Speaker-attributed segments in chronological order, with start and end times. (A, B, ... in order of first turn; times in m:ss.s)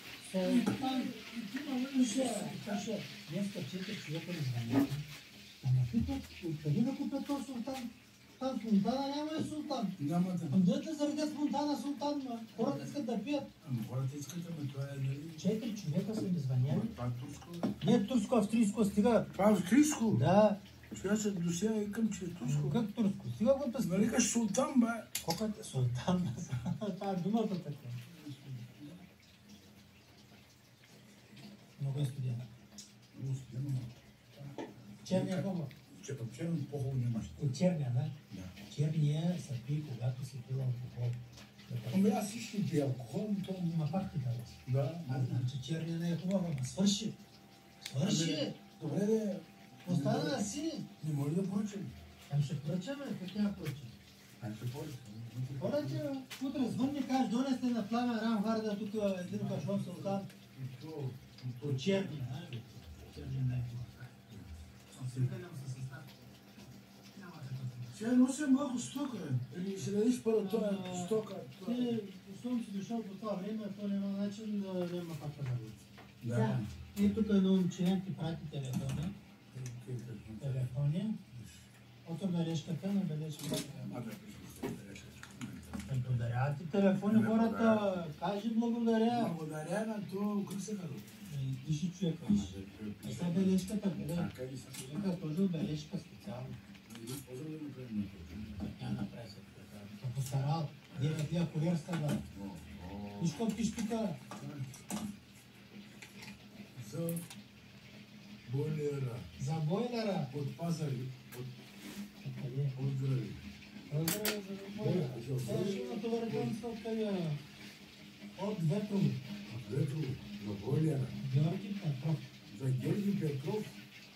0:00.2-0:01.1 A
0:00.4-0:03.0 B
0:01.9-0:05.0 A
0:05.6-0:09.9 A
0:10.0-0:10.6 B
0:10.5-0:13.5 A
0:12.5-0:13.0 B
0:13.6-0:15.4 B
0:15.4-0:16.9 A
0:16.6-0:17.8 B
0:17.8-0:19.3 A
0:19.3-0:20.2 B
0:20.1-0:20.6 A
0:20.9-0:22.8 B
0:22.4-0:24.1 A
0:23.8-0:25.1 B
0:25.2-0:28.0 A
0:28.0-0:29.0 B
0:31.8-0:32.4 A
0:33.1-0:37.5 B
0:35.0-0:35.7 A
0:37.4-0:42.1 A
0:38.3-0:38.6 B
0:41.9-0:44.0 B
0:43.6-0:47.2 A
0:44.6-0:45.5 B
0:47.8-0:48.6 A
0:48.0-0:50.4 B
0:49.8-0:50.9 A
0:51.0-0:51.9 B
0:52.3-0:53.9 A
0:54.4-0:56.0 B
0:55.6-1:00.3 A
0:59.2-1:03.0 B
1:01.6-1:04.2 A
1:04.3-1:05.3 B
1:05.0-1:06.1 A
1:07.1-1:08.0 A
1:07.9-1:12.0 B
1:10.3-1:19.1 A
1:16.2-1:16.7 B
1:19.5-1:20.7 B
1:20.4-1:21.2 A
1:21.3-1:21.7 B
1:22.0-1:24.0 A
1:23.6-1:26.2 B
1:25.8-1:29.3 A
1:27.0-1:28.0 B
1:29.1-1:31.3 B
1:31.3-1:36.6 A
1:32.2-1:35.0 B
1:36.9-1:38.6 B
1:38.5-1:42.2 A
1:40.9-1:41.3 B
1:42.3-1:43.5 B
1:43.2-1:44.2 A
1:44.3-1:44.8 B
1:46.7-1:47.2 B
1:48.4-1:49.3 B
1:49.4-1:50.3 A
1:50.3-1:51.5 B
1:52.2-1:52.7 A
1:52.7-1:53.4 B
1:53.9-1:57.4 A
1:54.8-1:56.6 B
1:58.4-1:59.2 A
1:59.5-2:01.2 B
2:01.2-2:02.3 A
2:02.5-2:03.8 B